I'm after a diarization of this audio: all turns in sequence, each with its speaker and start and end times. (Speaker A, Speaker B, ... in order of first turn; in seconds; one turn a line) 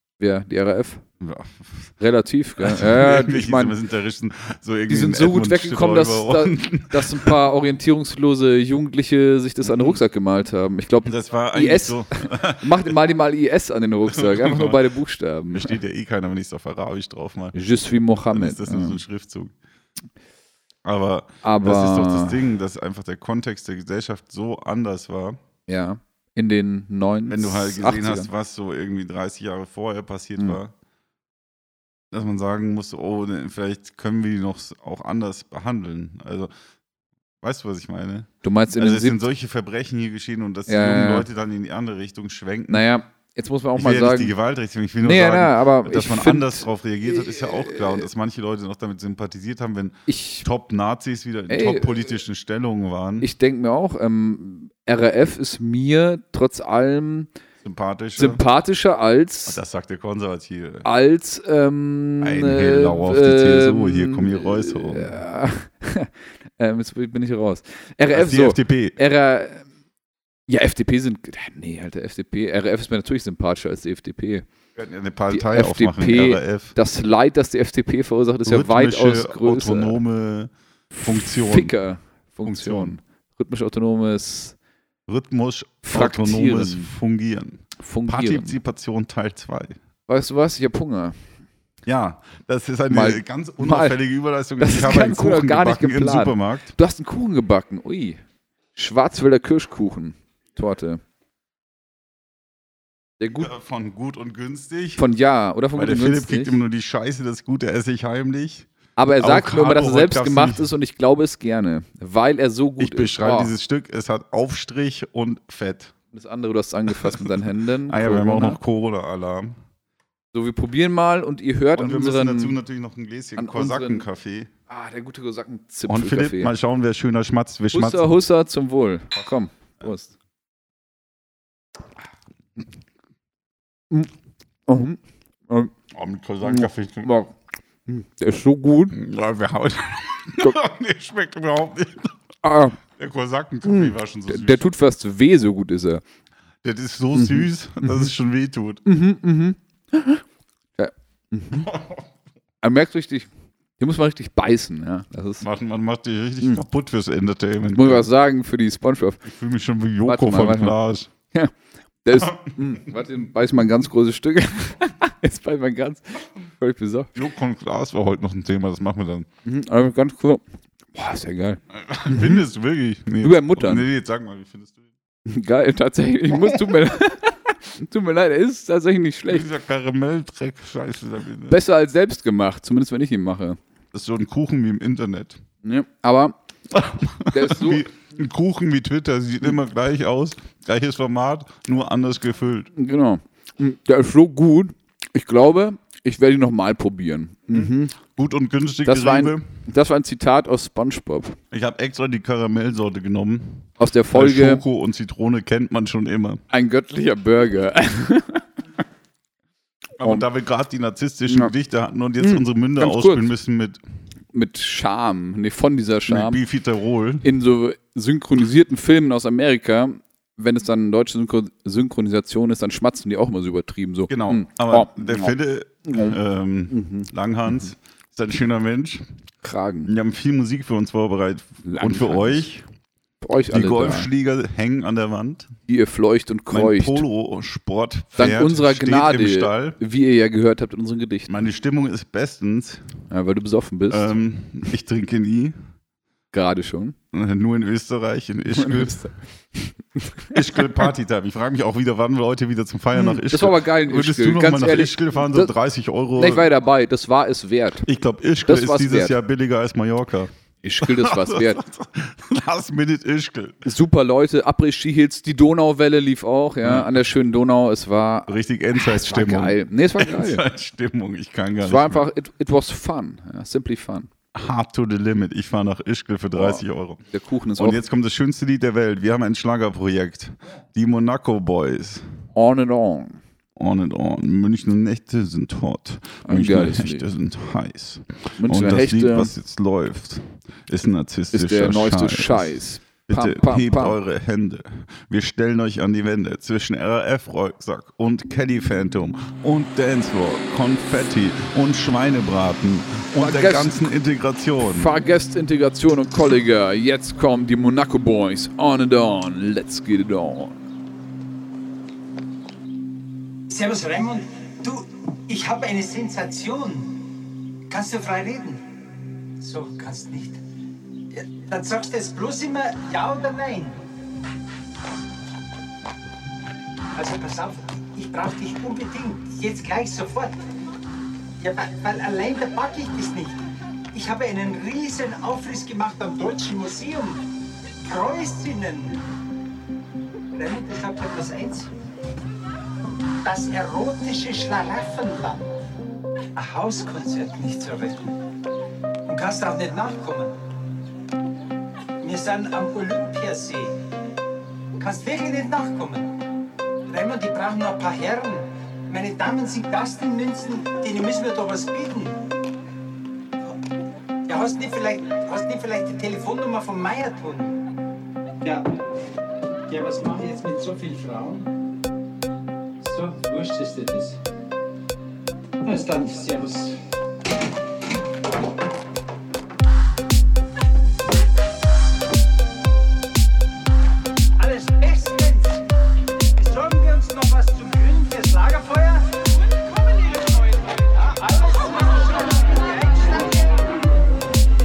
Speaker A: 0.2-1.0
Speaker B: 1.2-1.9
Speaker A: 2.0-3.8
Speaker B: 2.6-7.4
Speaker A: 4.9-15.7
Speaker B: 9.6-10.0
Speaker B: 11.0-12.9
Speaker B: 14.1-14.8
Speaker B: 15.5-17.5
Speaker A: 17.5-19.0
Speaker B: 18.3-19.5
Speaker B: 20.8-25.4
Speaker A: 21.4-22.4
Speaker A: 25.7-28.3
Speaker B: 27.3-30.7
Speaker B: 32.1-36.5
Speaker B: 37.4-42.8
Speaker A: 38.4-39.2
Speaker A: 40.7-41.3
Speaker A: 42.7-44.3
Speaker B: 43.7-53.3
Speaker A: 45.0-48.1
Speaker A: 50.1-50.5
Speaker A: 51.5-52.0
Speaker A: 53.2-57.3
Speaker B: 57.6-58.4
Speaker A: 58.2-59.6
Speaker B: 59.5-60.9
Speaker A: 60.8-69.6
Speaker B: 62.2-65.1
Speaker B: 68.1-69.0
Speaker A: 70.5-74.5
Speaker B: 74.8-76.7
Speaker A: 75.3-80.0
Speaker B: 78.5-80.5
Speaker A: 80.9-84.5
Speaker B: 81.0-81.7
Speaker B: 82.4-83.0
Speaker B: 85.1-89.8
Speaker A: 85.8-86.9
Speaker A: 87.8-88.6
Speaker A: 90.1-91.2
Speaker B: 91.8-96.7
Speaker A: 92.9-94.0
Speaker A: 94.6-98.2
Speaker A: 98.7-101.0
Speaker A: 103.2-103.5
Speaker B: 103.4-105.0
Speaker A: 105.0-106.6
Speaker B: 105.7-108.7
Speaker A: 109.0-113.5
Speaker B: 109.2-110.7
Speaker B: 112.8-115.9
Speaker A: 116.1-118.6
Speaker B: 116.9-117.3
Speaker B: 117.9-119.6
Speaker A: 120.3-122.6
Speaker B: 121.7-124.5
Speaker A: 123.3-124.0
Speaker A: 124.7-126.5
Speaker B: 125.9-128.1
Speaker A: 127.7-130.1
Speaker A: 134.7-135.7
Speaker B: 135.9-137.1
Speaker A: 136.4-137.3
Speaker A: 137.8-139.0
Speaker B: 138.9-142.1
Speaker A: 142.4-142.8
Speaker B: 143.0-144.6
Speaker A: 143.6-146.0
Speaker B: 146.6-148.8
Speaker A: 147.1-148.1
Speaker A: 148.8-150.2
Speaker A: 150.8-151.7
Speaker B: 151.5-152.0
Speaker A: 152.6-155.4
Speaker B: 155.4-158.1
Speaker A: 157.7-159.2
Speaker B: 159.2-161.1
Speaker A: 160.0-160.8
Speaker A: 162.0-167.1
Speaker B: 167.1-169.3
Speaker A: 169.4-170.4
Speaker A: 170.9-172.4
Speaker B: 171.7-174.8
Speaker A: 173.2-173.8
Speaker A: 175.2-179.5
Speaker B: 176.3-176.6
Speaker B: 179.3-181.6
Speaker A: 181.5-183.6
Speaker B: 183.9-185.4
Speaker A: 185.6-186.3
Speaker B: 186.7-192.7
Speaker A: 187.3-187.8
Speaker A: 192.7-197.9
Speaker B: 197.5-199.5
Speaker A: 198.8-201.4
Speaker B: 201.5-206.4
Speaker A: 203.8-204.6
Speaker A: 206.5-208.4
Speaker B: 210.0-213.8
Speaker A: 212.2-213.3
Speaker A: 214.3-216.4
Speaker B: 216.1-217.3
Speaker A: 217.2-225.3
Speaker B: 224.1-229.1
Speaker A: 225.8-226.2
Speaker A: 226.7-227.1
Speaker A: 229.4-229.9
Speaker B: 229.8-232.6
Speaker A: 231.6-232.4
Speaker A: 233.2-234.1
Speaker B: 233.5-235.5
Speaker A: 235.7-237.1
Speaker B: 236.5-239.8
Speaker A: 238.2-241.4
Speaker B: 241.3-242.8
Speaker A: 243.1-244.1
Speaker B: 243.9-245.5
Speaker A: 246.3-246.9
Speaker B: 247.1-249.0
Speaker A: 248.5-250.6
Speaker B: 250.3-256.5
Speaker A: 252.9-255.5
Speaker A: 256.1-257.9
Speaker B: 257.8-263.7
Speaker A: 258.4-259.1
Speaker A: 260.6-261.6
Speaker A: 263.6-270.4
Speaker B: 266.6-266.9
Speaker B: 268.3-272.0
Speaker A: 271.6-274.1
Speaker B: 274.3-277.0
Speaker A: 276.3-277.8
Speaker B: 277.6-282.0
Speaker A: 282.3-283.2
Speaker B: 283.6-292.5
Speaker A: 286.2-287.0
Speaker A: 288.4-289.3
Speaker A: 291.3-294.0
Speaker B: 293.1-304.9
Speaker A: 303.1-303.9
Speaker A: 304.7-310.6
Speaker C: 313.5-318.6
Speaker C: 319.4-320.4
Speaker C: 321.1-323.8
Speaker C: 326.9-330.4
Speaker C: 331.4-333.4
Speaker C: 333.9-337.2
Speaker C: 337.8-339.1
Speaker C: 340.3-341.7
Speaker C: 343.2-345.4
Speaker C: 346.3-348.2
Speaker C: 349.1-350.3
Speaker C: 352.0-353.8
Speaker C: 354.8-356.1
Speaker C: 356.9-362.3
Speaker C: 364.3-367.6
Speaker C: 368.4-368.8
Speaker C: 369.7-371.5
Speaker C: 372.8-374.2
Speaker C: 375.6-376.8
Speaker C: 384.4-385.6
Speaker C: 386.3-393.6